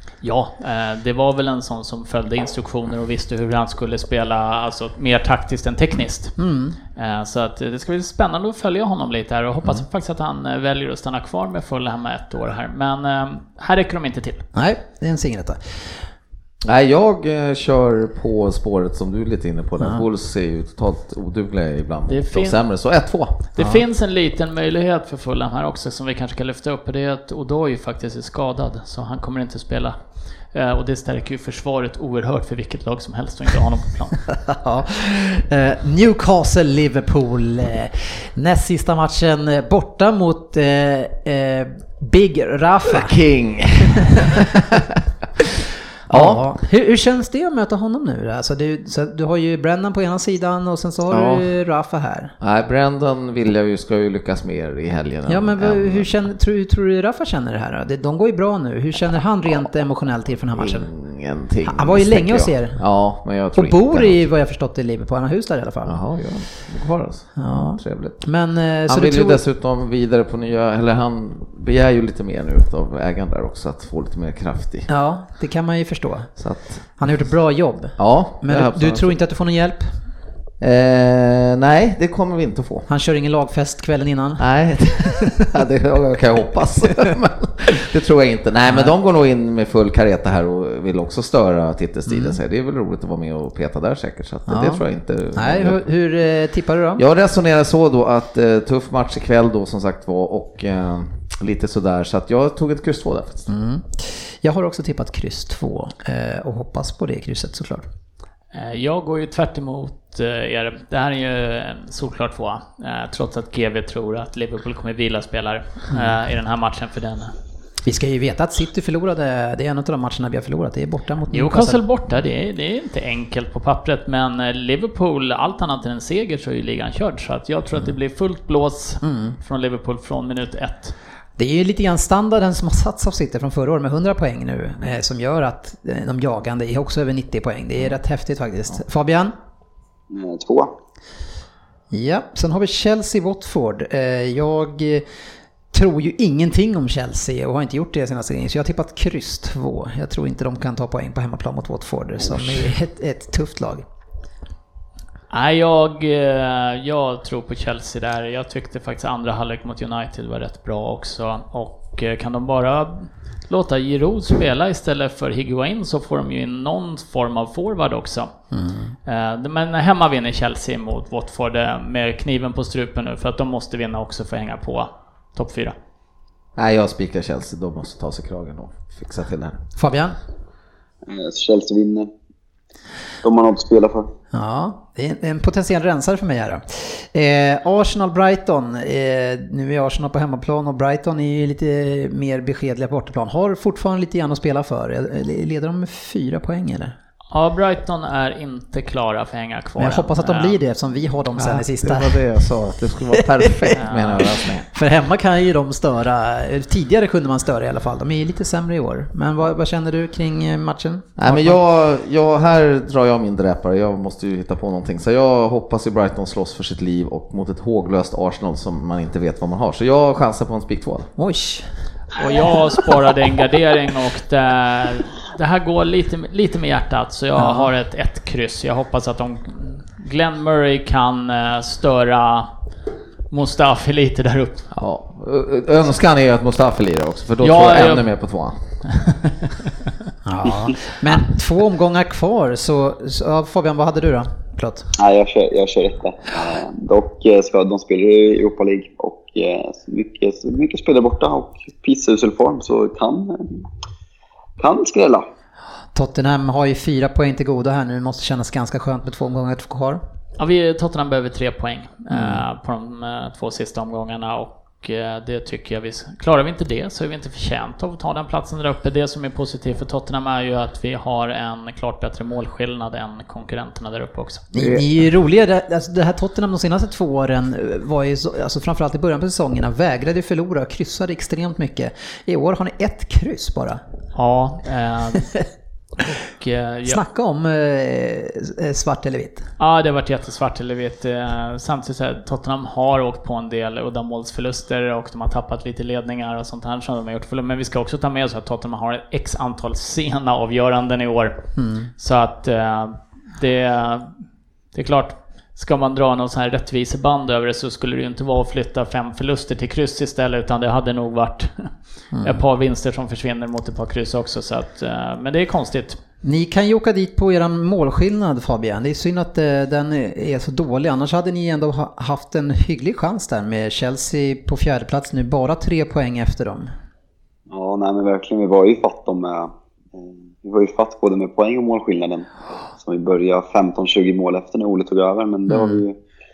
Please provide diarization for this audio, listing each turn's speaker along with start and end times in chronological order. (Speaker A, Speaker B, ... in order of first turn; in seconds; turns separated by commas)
Speaker A: 0.2-6.3, Speaker B: 6.4-6.8, Speaker A: 7.0-14.4, Speaker B: 14.5-15.6, Speaker C: 16.6-23.4, Speaker B: 19.8-20.1, Speaker A: 22.1-22.6, Speaker A: 23.5-30.0, Speaker A: 30.5-34.2, Speaker B: 34.3-43.1, Speaker C: 42.9-44.9, Speaker B: 44.0-44.6, Speaker B: 46.1-52.4, Speaker C: 46.1-46.5, Speaker C: 51.1-51.5, Speaker C: 52.4-56.1, Speaker B: 55.3-60.9, Speaker C: 60.6-64.2, Speaker B: 61.7-62.8, Speaker B: 63.5-66.0, Speaker C: 65.9-68.2, Speaker B: 67.4-69.4, Speaker C: 68.9-74.9, Speaker B: 74.9-76.4, Speaker C: 76.4-76.9, Speaker B: 77.0-79.8, Speaker C: 78.0-79.1, Speaker C: 80.6-82.9, Speaker B: 82.9-85.6, Speaker C: 84.4-95.8, Speaker B: 86.8-87.1, Speaker B: 88.7-89.0, Speaker B: 92.1-92.4, Speaker B: 94.5-97.0, Speaker C: 97.0-103.5, Speaker B: 103.5-107.9, Speaker A: 108.5-117.3, Speaker B: 117.8-121.8, Speaker A: 121.3-130.9, Speaker B: 129.0-129.4, Speaker B: 131.4-139.3, Speaker D: 140.1-140.7, Speaker B: 141.9-145.1, Speaker B: 145.7-153.8, Speaker A: 155.3-168.3, Speaker B: 168.5-168.9, Speaker A: 169.1-175.8, Speaker C: 176.6-179.6, Speaker B: 179.8-180.2, Speaker D: 181.1-182.1, Speaker D: 183.2-184.1, Speaker B: 184.3-196.9, Speaker A: 197.3-200.6, Speaker B: 199.8-202.3, Speaker C: 201.4-204.7, Speaker B: 203.1-211.6, Speaker A: 203.8-204.2, Speaker C: 211.2-221.1, Speaker B: 221.2-221.7, Speaker A: 222.2-232.5, Speaker B: 227.4-227.7, Speaker A: 233.3-234.7, Speaker C: 234.7-238.6, Speaker A: 237.4-238.1, Speaker B: 240.2-244.9, Speaker D: 245.0-253.7, Speaker D: 254.6-255.3, Speaker B: 255.9-260.0, Speaker A: 260.4-274.4, Speaker B: 274.5-283.8, Speaker C: 274.6-274.9, Speaker A: 284.1-285.3, Speaker A: 286.1-287.0, Speaker B: 286.9-289.5, Speaker A: 289.6-301.4, Speaker B: 301.6-301.9, Speaker A: 302.0-304.1, Speaker A: 304.7-311.7, Speaker B: 312.1-312.4, Speaker A: 312.2-316.0, Speaker B: 316.2-326.7, Speaker D: 327.5-332.3, Speaker D: 332.8-336.0, Speaker B: 335.5-335.8